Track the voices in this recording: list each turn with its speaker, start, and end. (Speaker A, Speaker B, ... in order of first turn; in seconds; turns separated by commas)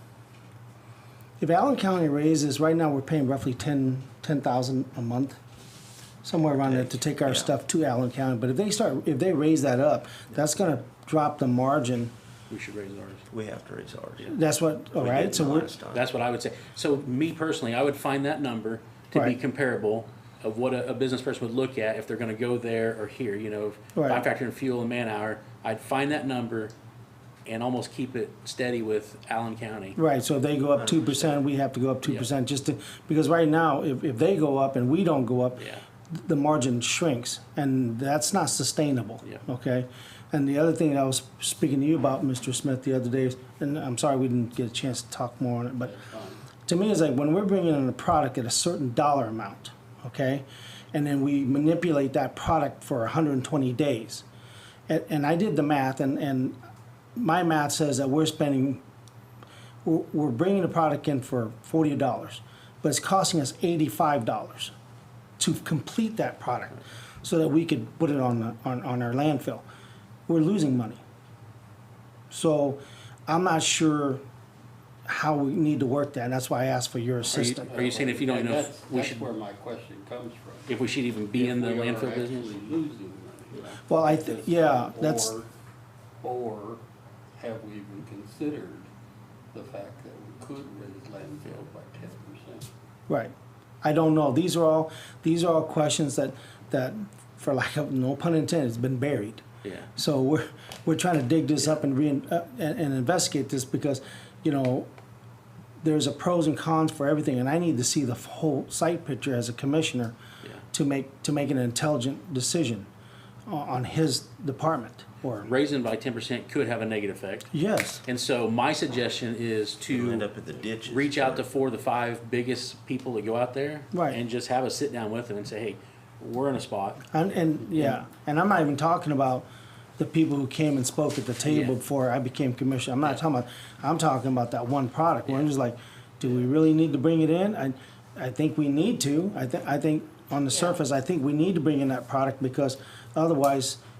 Speaker A: 1.4-5.4, Speaker A: 6.2-12.1, Speaker B: 6.7-7.5, Speaker C: 12.5-13.3, Speaker B: 13.3-14.3, Speaker A: 14.3-15.7, Speaker B: 14.9-16.1, Speaker C: 15.9-26.7, Speaker A: 24.0-24.2, Speaker C: 27.4-30.0, Speaker A: 30.0-46.0, Speaker C: 35.6-35.8, Speaker D: 45.8-46.4, Speaker A: 46.6-54.2, Speaker A: 54.9-56.6, Speaker A: 57.2-58.8, Speaker A: 59.9-64.7, Speaker A: 65.4-69.7, Speaker A: 70.3-71.0, Speaker A: 72.3-74.2, Speaker A: 75.1-77.7, Speaker C: 77.3-79.3, Speaker D: 77.7-80.8, Speaker C: 80.7-82.7, Speaker D: 81.3-85.5, Speaker A: 83.9-85.3, Speaker D: 86.2-86.8, Speaker D: 87.4-88.9, Speaker D: 89.5-92.7, Speaker A: 93.1-99.4, Speaker C: 99.6-99.9, Speaker A: 100.0-104.9, Speaker A: 105.8-110.2, Speaker A: 110.7-112.9, Speaker A: 113.5-115.5, Speaker C: 115.4-117.5, Speaker A: 117.5-118.0, Speaker C: 118.1-120.3, Speaker B: 119.9-121.4, Speaker C: 120.8-127.1, Speaker A: 123.9-124.2, Speaker A: 127.1-129.5, Speaker A: 130.0-143.8, Speaker C: 131.5-131.7